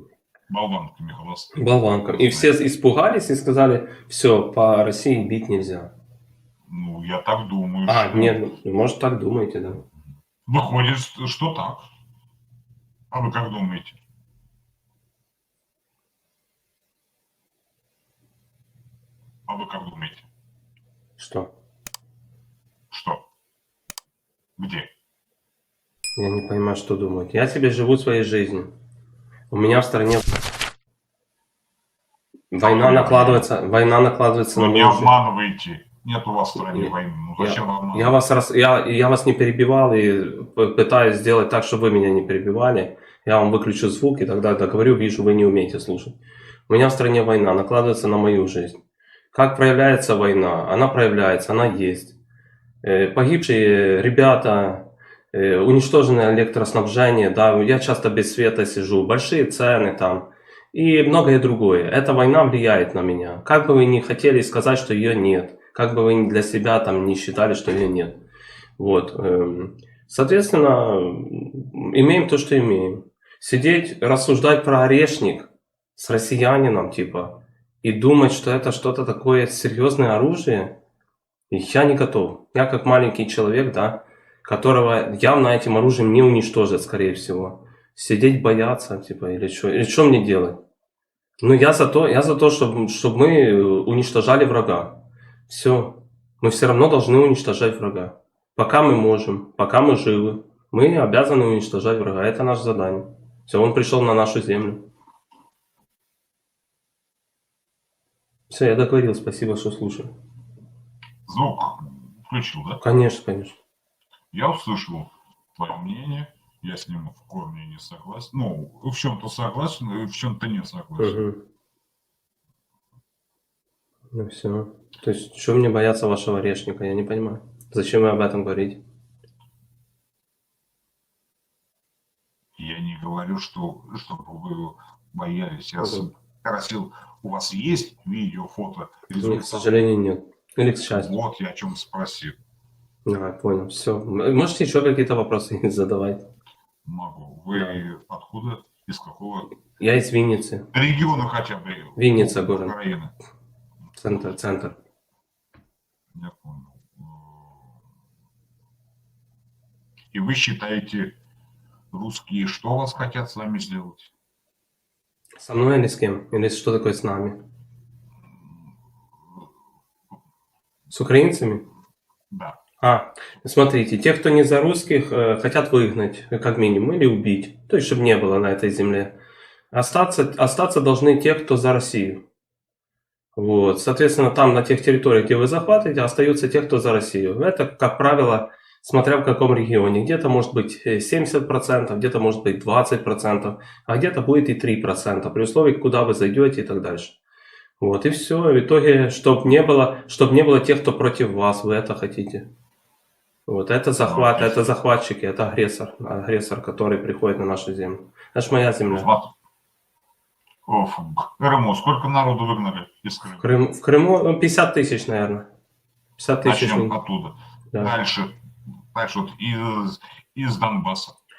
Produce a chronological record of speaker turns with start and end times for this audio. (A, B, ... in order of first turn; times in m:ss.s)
0:00.5-0:02.5 A
0:01.5-0:05.9 B
0:06.7-0:08.4 A
0:07.9-0:09.8 B
0:10.4-0:11.8 A
0:13.1-0:14.0 A
0:19.5-0:20.2 A
0:21.2-0:21.5 B
0:22.9-0:23.2 A
0:24.6-0:24.9 A
0:26.2-0:28.7 B
0:29.5-0:30.2 B
0:32.5-0:35.1 B
0:32.6-0:33.5 A
0:34.5-0:38.2 A
0:36.5-0:46.2 B
0:46.7-0:48.8 B
0:49.3-0:52.1 B
0:52.8-1:08.2 B
1:08.8-1:20.7 B
1:21.5-1:30.6 B
1:31.4-1:44.8 B
1:48.5-1:50.1 B
1:51.3-1:52.8 A
1:52.8-1:53.6 B
1:54.3-2:01.2 A
2:01.0-2:01.4 B
2:04.1-2:08.8 B
2:12.6-2:19.7 A
2:15.8-2:16.1 B
2:19.2-2:21.1 B
2:20.9-2:22.4 A
2:23.0-2:26.2 B
2:26.8-2:29.5 A
2:27.5-2:27.8 B
2:29.8-2:30.7 B
2:30.7-2:33.1 A
2:32.0-2:32.7 B
2:34.0-2:34.8 B
2:36.1-2:37.7 A
2:40.1-2:41.1 A
2:41.9-2:44.1 A
2:45.4-2:47.4 B
2:50.9-2:51.6 B
2:52.3-2:52.6 A
2:52.8-2:59.1 B
2:59.7-3:02.2 B
3:03.3-3:17.2 B
3:17.8-3:22.5 B
3:23.5-3:29.1 B
3:24.0-3:24.7 A
3:28.9-3:29.3 A
3:30.6-3:33.5 A
3:33.4-3:35.5 B
3:36.2-3:36.9 B
3:36.4-3:38.4 A
3:38.9-3:41.2 A